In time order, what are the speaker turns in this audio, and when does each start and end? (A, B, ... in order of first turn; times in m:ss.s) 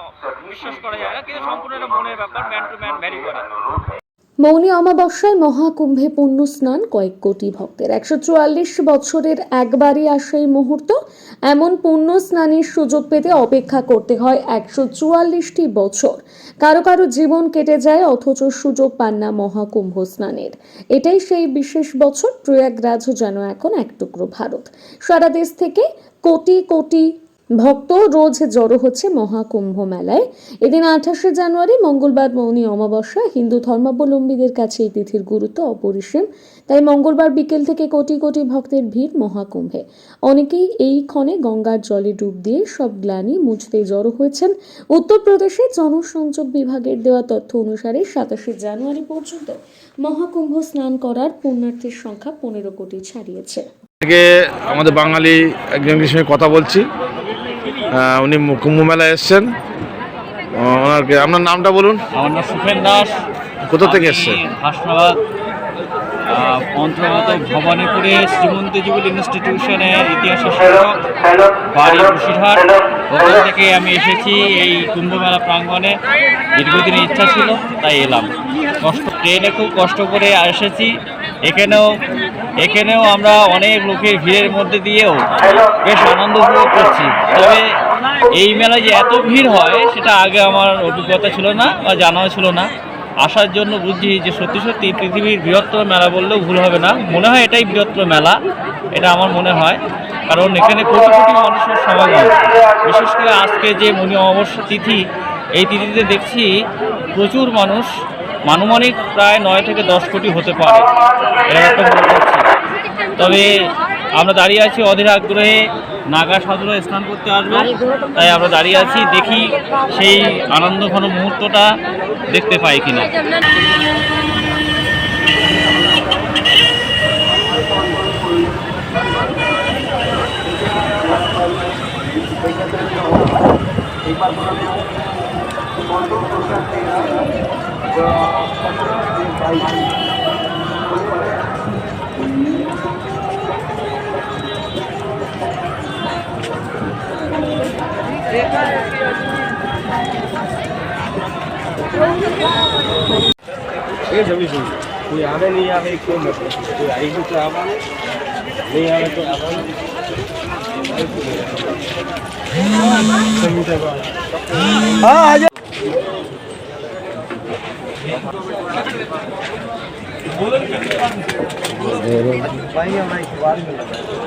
0:00.4-0:03.5 A
0:04.4-0:11.0 B
0:11.5-0:27.1 B
0:27.6-0:53.6 B
0:54.0-0:56.9 C
0:58.0-0:59.5 C
1:00.6-1:02.0 C
1:02.2-1:03.2 D
1:03.7-1:04.4 C
1:03.8-1:05.2 D
1:06.3-1:11.1 D
1:11.7-1:16.0 D
1:16.6-1:18.3 D
1:18.8-1:20.9 D
1:21.5-1:21.8 D
1:22.6-1:27.6 D
1:28.3-1:32.7 D
1:33.2-1:38.4 D
1:38.9-1:45.0 D
1:45.6-1:46.5 D
1:47.1-1:47.9 D
1:48.5-1:52.4 D
1:53.2-2:01.7 D
2:02.3-2:03.1 D
2:07.7-2:08.3 E
2:11.0-2:11.7 E
2:12.4-2:13.3 E
2:14.1-2:14.8 E
2:16.0-2:17.1 E
2:18.3-2:19.8 E
2:34.1-2:37.8 E
2:38.7-2:39.7 E
2:40.8-2:41.7 E
2:43.2-2:45.5 E
2:52.4-2:54.1 E